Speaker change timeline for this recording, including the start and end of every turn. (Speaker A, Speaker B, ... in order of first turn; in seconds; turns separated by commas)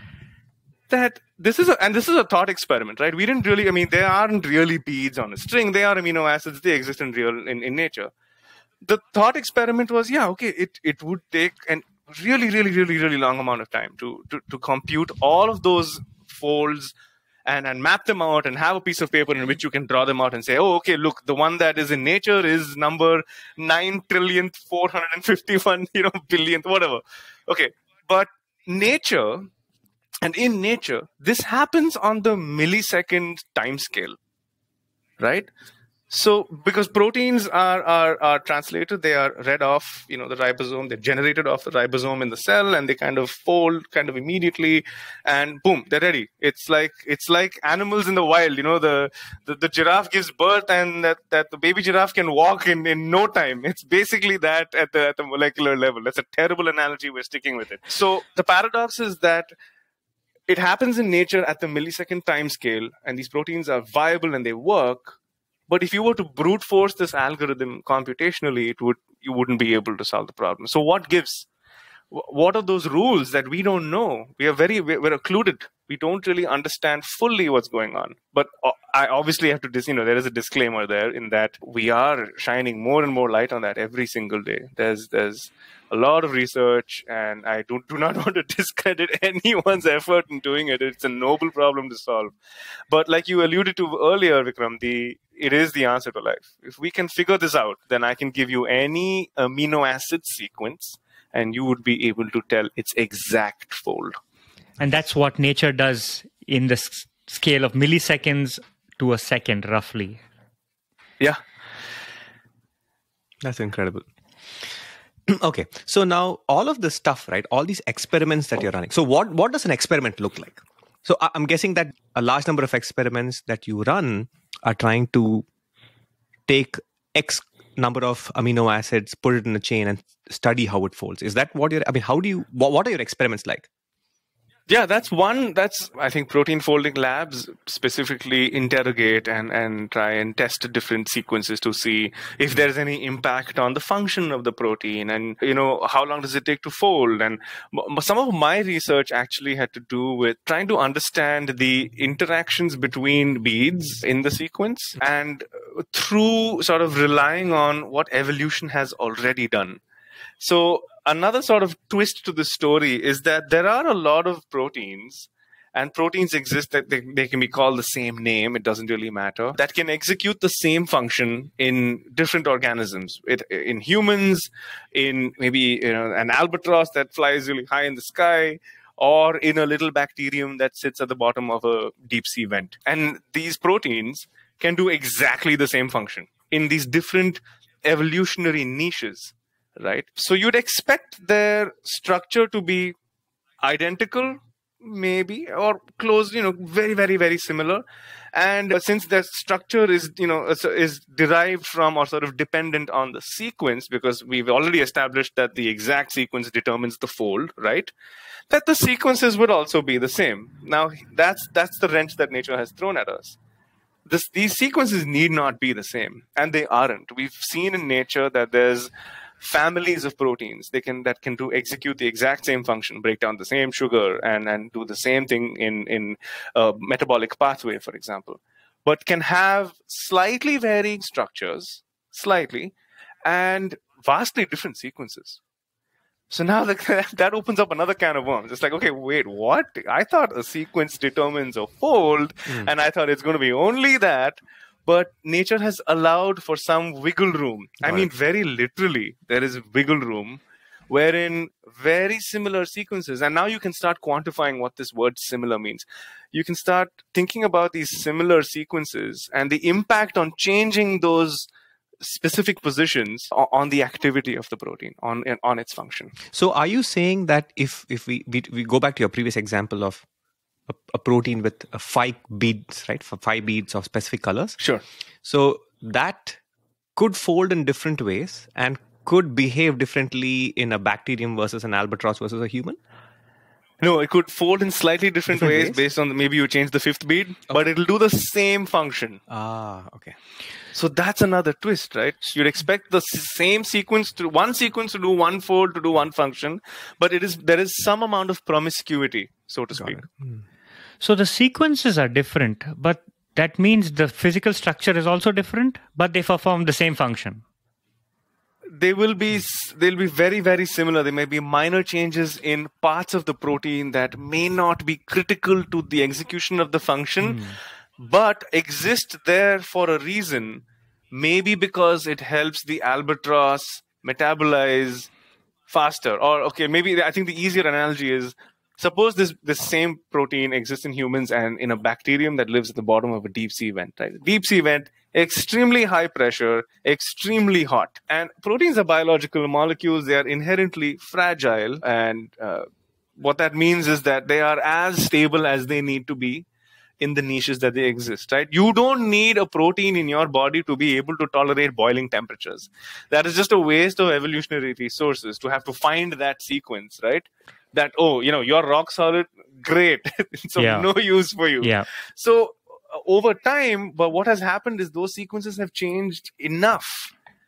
Speaker A: 0.9-8.1, Speaker A: 8.8-16.9, Speaker A: 17.4-29.5, Speaker A: 30.2-34.1, Speaker A: 35.2-35.5, Speaker A: 36.1-59.5, Speaker A: 60.5-65.2, Speaker A: 65.7-71.5, Speaker A: 72.1-92.3, Speaker A: 92.9-104.2, Speaker B: 104.8-110.2, Speaker C: 113.4-114.0, Speaker C: 115.3-125.5, Speaker C: 126.5-133.7, Speaker A: 134.7-159.8, Speaker A: 160.4-192.9, Speaker A: 193.6-207.9, Speaker A: 208.5-213.3, Speaker A: 214.1-218.9, Speaker A: 219.4-232.7, Speaker A: 233.2-235.4, Speaker A: 236.3-261.5, Speaker C: 247.8-248.1, Speaker A: 262.0-266.1, Speaker C: 266.3-270.0, Speaker C: 270.7-274.6, Speaker C: 275.2-276.4, Speaker C: 276.9-282.8, Speaker A: 283.8-289.2, Speaker C: 285.3-285.8, Speaker C: 289.3-290.1, Speaker A: 290.7-300.1, Speaker C: 299.8-300.4, Speaker B: 301.0-307.4, Speaker A: 308.7-325.1, Speaker A: 325.7-342.7, Speaker A: 343.2-346.4, Speaker A: 347.0-367.1, Speaker B: 360.6-360.9, Speaker B: 361.6-361.9